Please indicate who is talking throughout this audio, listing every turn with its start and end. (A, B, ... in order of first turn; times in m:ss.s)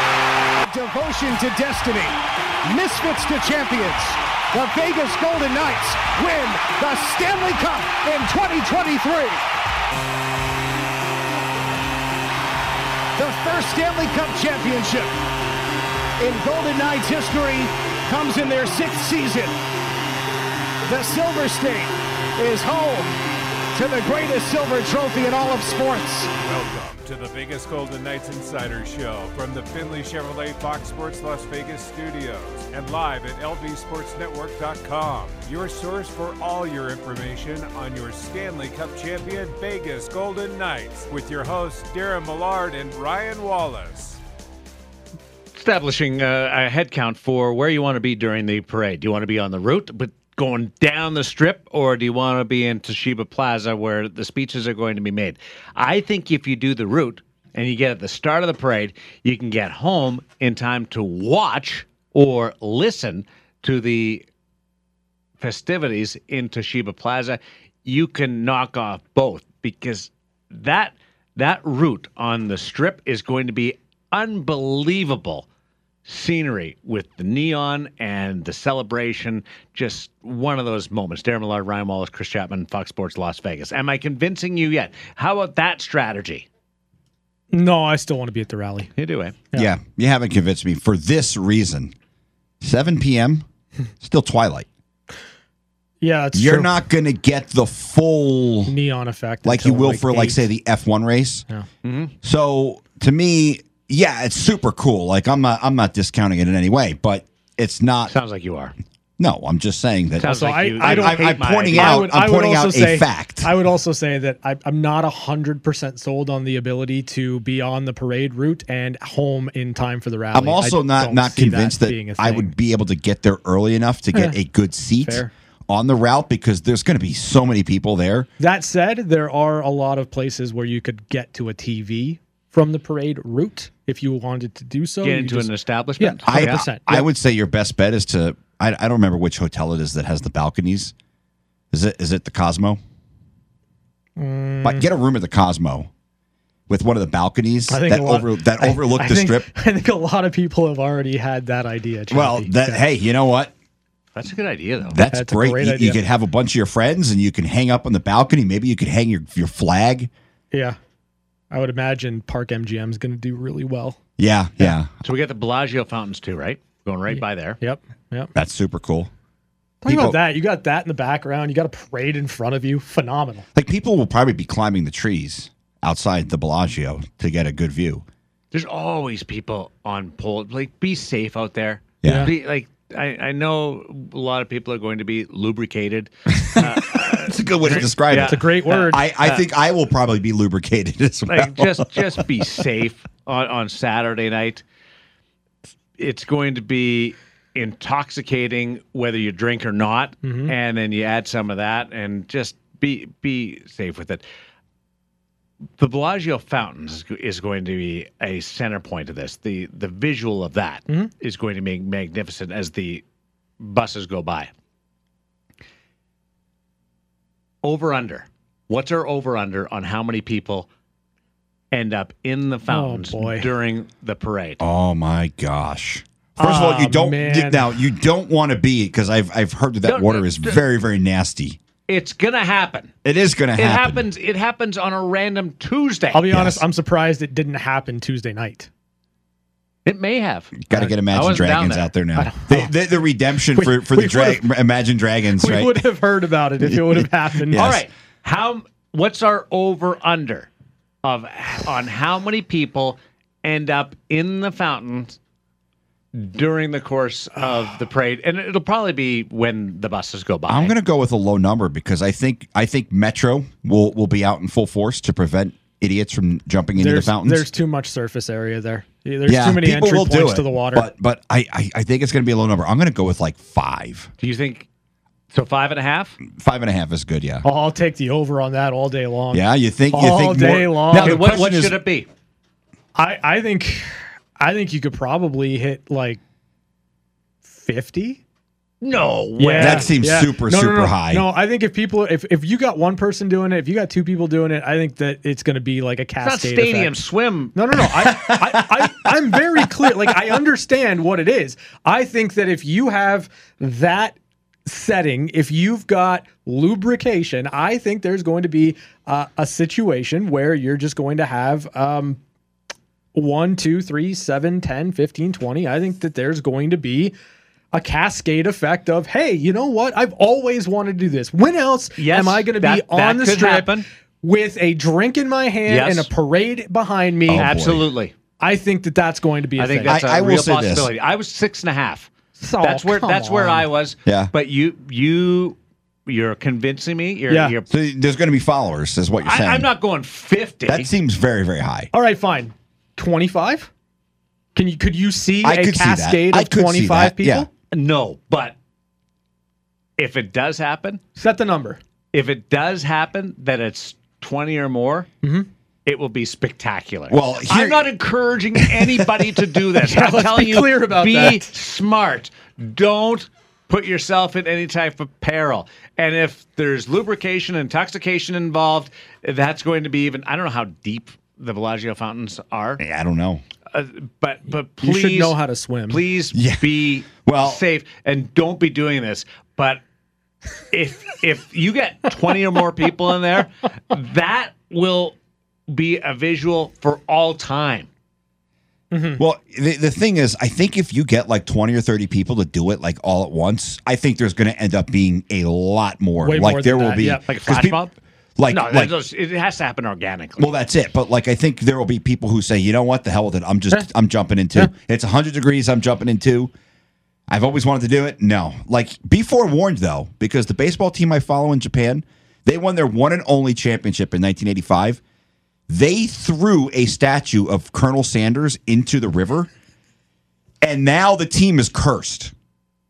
0:00.6-0:09.4 A
0:13.2-0:15.1 A
0:16.2-0:19.6 A
0:20.8-0:23.1 A
0:23.7-0:26.3 A
0:26.4-0:44.2 B
0:45.6-1:04.2 C
1:05.4-1:15.5 C
1:16.1-1:26.5 C
1:27.5-1:28.9 D
1:29.0-1:29.4 C
1:29.5-1:31.9 E
1:32.6-1:33.5 E
1:34.0-1:34.7 E
1:36.0-1:36.8 D
1:36.3-1:38.8 E
1:38.7-1:40.5 D
1:39.4-1:41.5 E
1:41.8-1:42.1 C
1:42.2-1:48.1 E
1:48.1-1:48.8 C
1:49.2-1:53.5 E
1:50.2-1:52.1 C
1:50.2-2:02.5 D
2:00.3-2:08.3 E
2:04.1-2:04.4 D
2:05.0-2:05.3 D
2:08.4-2:17.1 D
2:15.0-2:16.6 C
2:16.3-2:20.9 E
2:21.7-2:22.8 E
2:24.2-2:24.9 D
2:24.6-2:25.9 E
2:26.7-2:29.5 E
2:27.7-2:32.8 D
2:32.1-2:33.5 E
2:34.2-2:35.0 C
2:34.9-2:40.1 E
2:35.1-2:36.0 D
2:40.5-2:40.8 D
2:41.5-2:44.0 D
2:44.2-2:44.9 E
2:45.0-2:47.6 C
2:47.1-2:48.3 D
2:48.4-2:49.1 E
2:49.8-2:53.5 D
2:49.9-2:50.2 E
2:53.6-2:58.1 E
2:58.5-3:09.4 C
3:02.0-3:02.3 E
3:02.0-3:02.3 D
3:06.5-3:12.3 E
3:07.7-3:09.1 D
3:11.3-3:14.6 C
3:16.0-3:24.2 C
3:20.2-3:20.5 D
3:25.8-3:33.0 C
3:33.6-3:34.5 C
3:37.6-3:40.7 C
3:41.7-3:44.6 C
3:42.7-3:43.5 D
3:44.6-3:51.6 E
3:46.4-3:47.7 D
3:49.8-3:50.6 C
3:51.9-3:52.9 C
3:53.0-3:54.1 E
3:53.6-3:56.4 C
3:56.1-3:58.7 D
3:56.3-3:56.6 E
3:59.8-4:01.9 C
4:00.6-4:05.8 E
4:02.2-4:02.7 D
4:03.5-4:04.4 D
4:05.4-4:07.7 D
4:06.6-4:07.8 E
4:07.6-4:10.5 C
4:11.0-4:15.2 C
4:16.1-4:20.7 C
4:20.5-4:27.5 E
4:26.8-4:30.9 D
4:29.3-4:34.1 E
4:34.2-4:34.7 C
4:35.3-4:36.2 C
4:36.3-4:37.4 E
4:37.4-4:41.7 D
4:39.3-4:41.6 E
4:40.9-4:42.1 C
4:43.0-4:43.9 D
4:44.4-4:46.2 D
4:47.4-4:48.2 D
4:48.8-4:50.0 C
4:49.4-4:56.9 D
4:49.6-4:51.2 E
4:56.2-4:57.6 C
4:57.5-5:12.2 D
4:58.0-4:59.1 E
5:13.1-5:17.2 D
5:17.7-5:27.5 D
5:22.0-5:23.8 C
5:25.7-5:26.1 C
5:27.3-5:27.9 E
5:27.4-5:28.1 C
5:28.4-5:30.0 D
5:29.6-5:32.1 C
5:29.9-5:30.9 E
5:32.4-5:33.7 D
5:32.6-5:37.7 C
5:34.1-5:34.3 E
5:37.3-5:37.6 D
5:37.7-5:39.7 E
5:39.2-5:40.9 C
5:40.7-5:41.9 E
5:41.9-5:43.7 D
5:44.6-5:47.5 D
5:45.4-5:47.5 E
5:47.7-5:48.6 C
5:50.0-5:51.0 C
5:51.2-5:51.8 D
5:52.1-5:55.1 C
5:55.2-5:55.5 D
5:55.8-6:12.8 C
5:57.1-5:57.9 E
5:58.6-5:59.3 E
5:59.8-6:01.5 D
6:12.8-6:13.4 E
6:13.7-6:15.4 C
6:14.8-6:16.0 D
6:15.9-6:19.8 C
6:16.3-6:17.6 E
6:20.7-6:25.2 C
6:25.7-6:27.9 C
6:28.9-6:29.2 D
6:29.2-6:37.9 E
6:36.2-6:37.2 D
6:37.2-6:37.9 C
6:38.4-6:38.9 E
6:38.5-6:40.5 C
6:40.4-6:46.5 E
6:47.3-6:55.0 E
6:55.7-6:59.5 E
7:00.6-7:02.3 E